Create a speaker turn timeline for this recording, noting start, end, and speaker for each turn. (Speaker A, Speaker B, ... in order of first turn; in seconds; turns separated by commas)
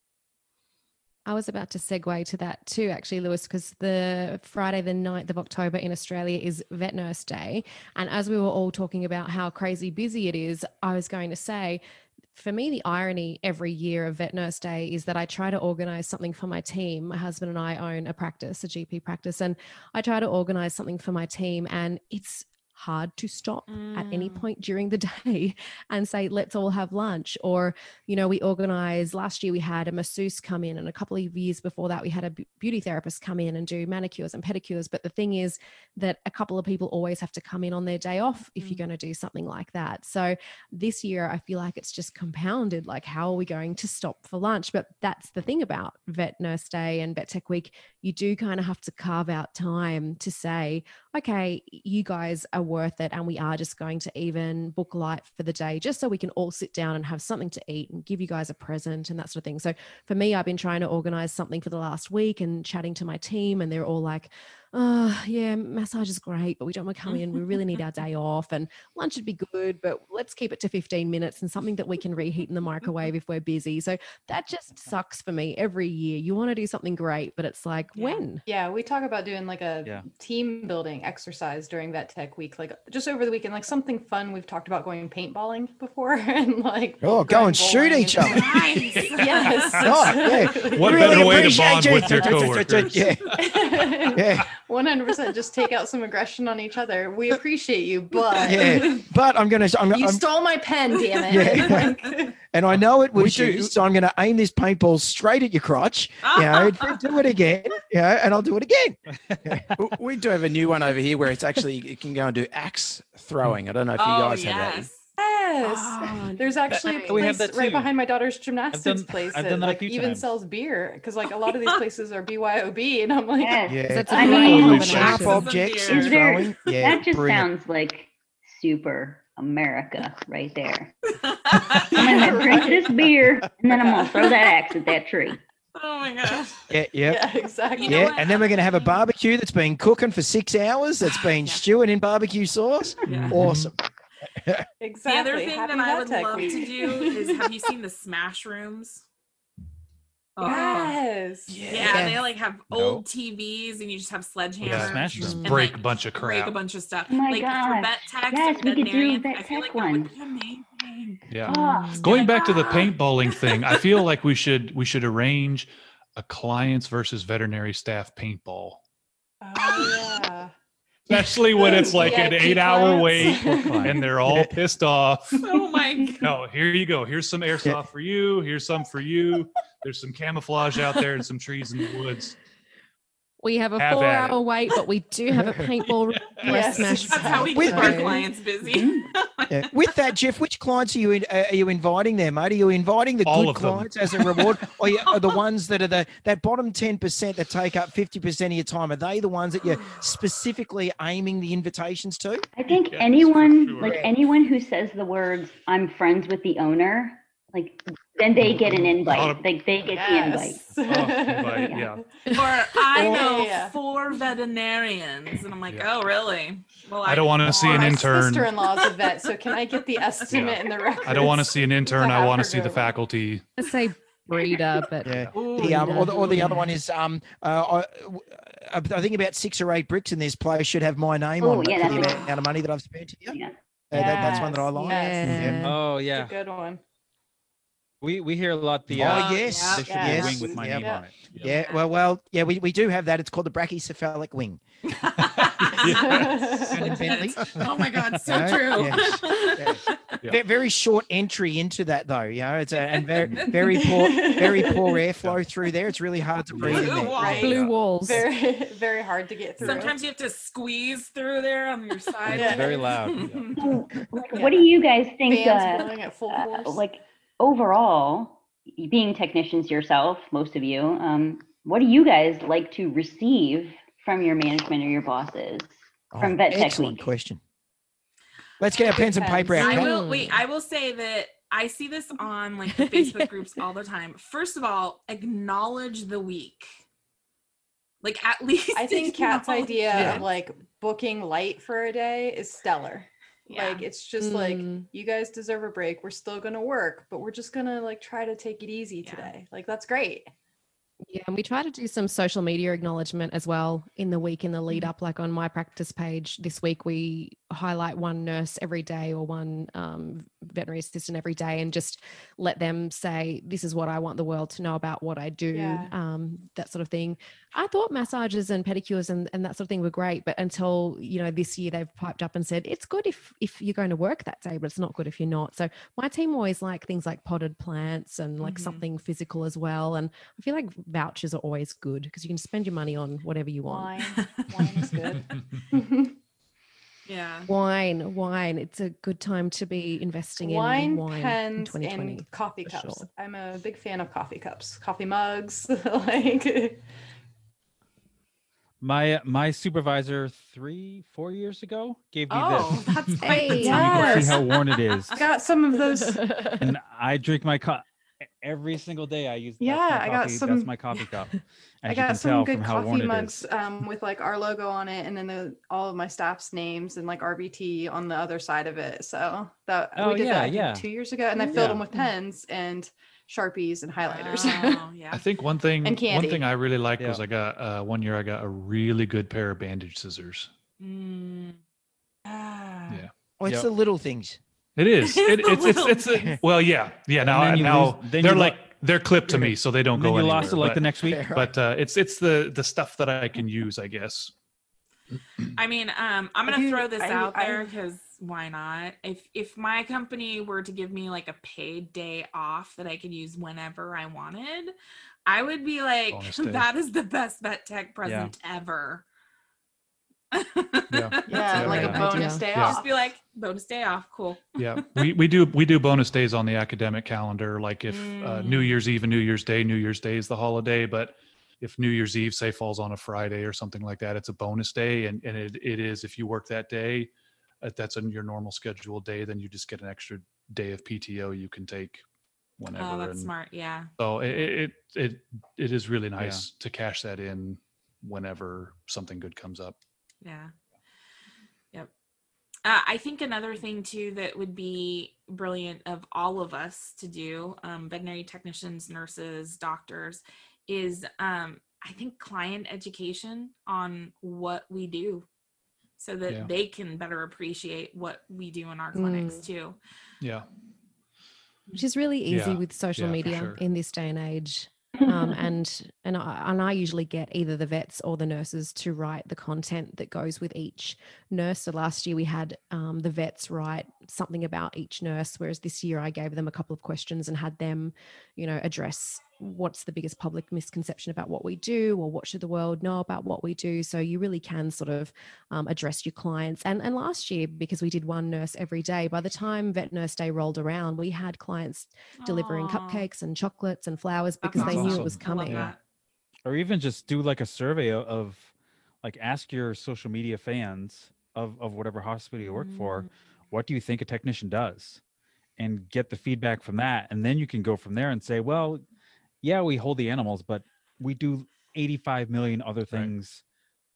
Speaker A: 1.2-11.8, Speaker A: 12.3-78.4, Speaker B: 23.7-24.5, Speaker B: 38.6-38.8, Speaker B: 67.1-67.4, Speaker B: 77.9-78.2, Speaker C: 78.5-92.3, Speaker D: 87.0-88.4, Speaker B: 88.2-89.9, Speaker E: 89.0-93.8, Speaker D: 89.8-93.3, Speaker F: 92.0-92.3, Speaker C: 93.3-99.0, Speaker D: 94.1-94.5, Speaker D: 98.4-100.2, Speaker C: 99.9-102.3, Speaker D: 101.3-101.9, Speaker D: 102.5-109.6, Speaker F: 103.1-103.7, Speaker B: 106.2-107.0, Speaker F: 109.3-109.6, Speaker G: 109.8-114.9, Speaker B: 114.0-115.1, Speaker C: 115.2-125.2, Speaker A: 115.7-117.2, Speaker F: 116.8-117.9, Speaker F: 118.7-120.3, Speaker B: 121.5-121.7, Speaker H: 123.4-125.0, Speaker D: 123.7-127.5, Speaker A: 123.9-125.5, Speaker B: 124.4-126.2, Speaker H: 125.9-131.0, Speaker B: 131.2-132.5, Speaker C: 131.8-133.0, Speaker H: 131.9-135.4, Speaker C: 133.7-134.5, Speaker B: 135.7-136.6, Speaker D: 136.7-137.2, Speaker C: 137.0-138.3, Speaker B: 137.8-139.0, Speaker D: 137.8-143.7, Speaker F: 143.1-143.6, Speaker E: 143.1-143.5, Speaker D: 144.4-144.6, Speaker C: 144.8-147.6, Speaker B: 145.0-149.0, Speaker B: 150.3-151.0, Speaker C: 150.4-152.1, Speaker G: 151.5-152.2, Speaker B: 151.7-163.8, Speaker D: 151.9-152.2, Speaker F: 152.7-153.0, Speaker F: 154.6-155.6, Speaker E: 154.6-156.5, Speaker H: 157.1-160.1, Speaker E: 161.3-168.8, Speaker H: 161.5-162.2, Speaker A: 161.5-162.1, Speaker C: 169.4-170.5, Speaker E: 171.1-175.5, Speaker C: 171.5-174.0, Speaker F: 173.1-174.4, Speaker B: 175.4-176.3, Speaker E: 176.2-182.4, Speaker A: 183.4-188.2, Speaker E: 183.8-184.4, Speaker D: 185.3-185.7, Speaker E: 185.8-186.8, Speaker C: 186.4-188.2, Speaker B: 187.1-189.7, Speaker D: 187.6-188.1, Speaker H: 188.6-189.1, Speaker D: 189.5-202.4, Speaker E: 193.2-194.6, Speaker H: 202.6-210.7, Speaker E: 202.7-204.0, Speaker D: 203.8-204.1, Speaker F: 208.5-208.9, Speaker E: 209.0-209.4, Speaker C: 209.9-212.1, Speaker F: 210.7-211.3, Speaker E: 210.9-212.0, Speaker B: 212.3-218.2, Speaker C: 212.7-213.8, Speaker E: 217.0-218.5, Speaker C: 217.5-222.9, Speaker E: 220.3-223.4, Speaker A: 223.6-226.5, Speaker D: 225.0-233.4, Speaker B: 225.3-226.5, Speaker H: 231.4-232.3, Speaker C: 231.8-232.2, Speaker H: 233.3-233.6, Speaker D: 233.9-235.6, Speaker C: 233.9-236.8, Speaker A: 234.0-235.8, Speaker F: 235.6-236.3, Speaker F: 238.0-241.5, Speaker D: 238.9-244.6, Speaker B: 239.0-240.4, Speaker C: 239.6-241.1, Speaker B: 241.4-241.8, Speaker B: 245.0-250.2, Speaker E: 245.2-246.4, Speaker C: 245.8-247.1, Speaker D: 246.7-247.7, Speaker D: 248.3-257.2, Speaker C: 253.5-255.0, Speaker F: 256.6-256.9, Speaker E: 256.6-256.9, Speaker B: 256.7-257.6, Speaker C: 256.7-260.0, Speaker A: 257.2-258.3, Speaker B: 259.6-263.6, Speaker C: 262.2-263.1, Speaker F: 262.2-263.6, Speaker H: 263.6-277.1, Speaker C: 264.3-264.7, Speaker C: 265.2-266.8, Speaker D: 276.1-277.4, Speaker D: 278.6-279.9, Speaker C: 278.8-279.9, Speaker B: 279.5-286.8, Speaker A: 279.6-280.4, Speaker A: 282.9-283.2, Speaker B: 288.0-290.2, Speaker C: 288.7-300.3, Speaker B: 293.5-293.9, Speaker A: 294.2-294.9, Speaker B: 299.0-299.3, Speaker A: 301.1-334.1, Speaker C: 315.5-315.9, Speaker B: 328.4-328.8, Speaker C: 333.7-336.1, Speaker B: 337.1-337.5, Speaker A: 337.5-343.1, Speaker C: 340.4-346.8, Speaker F: 348.8-355.2, Speaker B: 352.3-355.0, Speaker A: 353.2-354.0, Speaker C: 353.4-354.5, Speaker C: 355.1-356.5, Speaker A: 355.9-356.7, Speaker F: 356.6-357.8, Speaker F: 358.4-363.4, Speaker C: 359.6-360.8, Speaker C: 361.9-374.8, Speaker F: 369.9-370.9, Speaker A: 371.4-371.7, Speaker F: 371.5-371.8, Speaker B: 374.0-375.2, Speaker E: 375.1-380.5, Speaker C: 375.8-376.5, Speaker B: 380.8-381.6, Speaker C: 382.2-383.1, Speaker D: 383.4-384.4, Speaker E: 384.8-394.3, Speaker B: 385.0-386.4, Speaker F: 387.2-388.7, Speaker F: 389.3-391.3, Speaker D: 390.4-391.5, Speaker B: 395.6-404.7, Speaker C: 396.4-397.7, Speaker B: 405.2-409.0, Speaker E: 406.1-406.7, Speaker F: 408.0-408.3, Speaker B: 410.3-415.1, Speaker E: 410.9-412.8, Speaker C: 411.3-412.8, Speaker A: 411.6-412.4, Speaker F: 411.6-412.0, Speaker E: 414.6-427.1, Speaker B: 417.9-418.8, Speaker E: 427.6-432.0, Speaker E: 432.6-433.3, Speaker B: 432.8-433.9, Speaker E: 434.0-439.8, Speaker F: 436.2-436.4, Speaker B: 440.2-440.5, Speaker B: 442.6-455.3, Speaker B: 456.0-459.8, Speaker A: 458.9-459.4, Speaker E: 460.2-460.5, Speaker A: 461.7-495.7, Speaker E: 462.3-463.6, Speaker H: 465.0-465.5, Speaker B: 492.2-493.1, Speaker B: 494.4-495.8, Speaker E: 494.6-495.7, Speaker F: 496.4-498.5, Speaker F: 499.0-505.0, Speaker B: 502.4-503.1, Speaker F: 505.6-508.8, Speaker F: 509.4-513.4